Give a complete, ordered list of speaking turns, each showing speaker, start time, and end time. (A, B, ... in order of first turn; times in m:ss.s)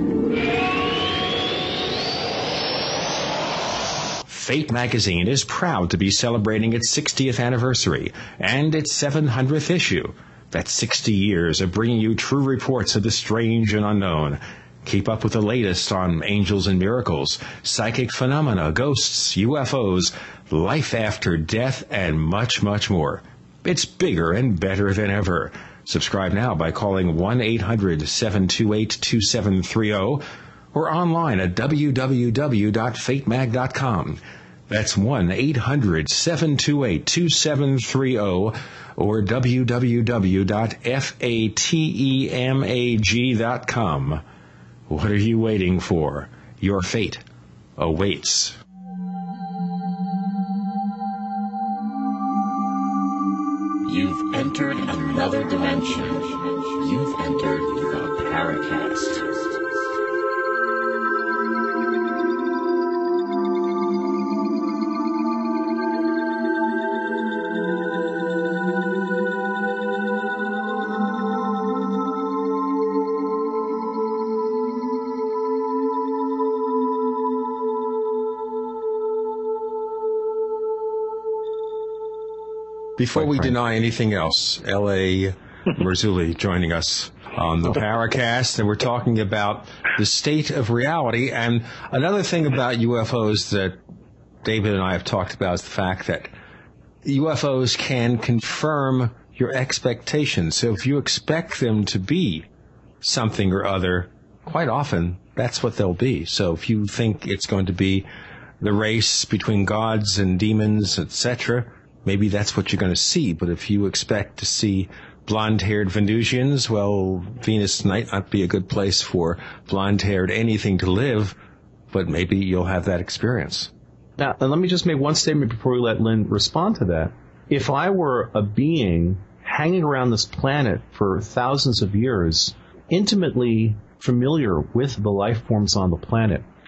0:04.3-0:44.2 A
0:44.9-0:47.2 A
0:47.8-0:48.6 A
0:53.8-0:59.6 B
1:23.0-1:33.8 A
1:23.2-1:23.5 C
1:34.4-1:36.3 A
1:37.0-1:42.5 A
1:43.0-1:48.1 A
1:48.6-2:01.4 A
2:01.9-2:03.7 A
2:04.2-2:16.5 C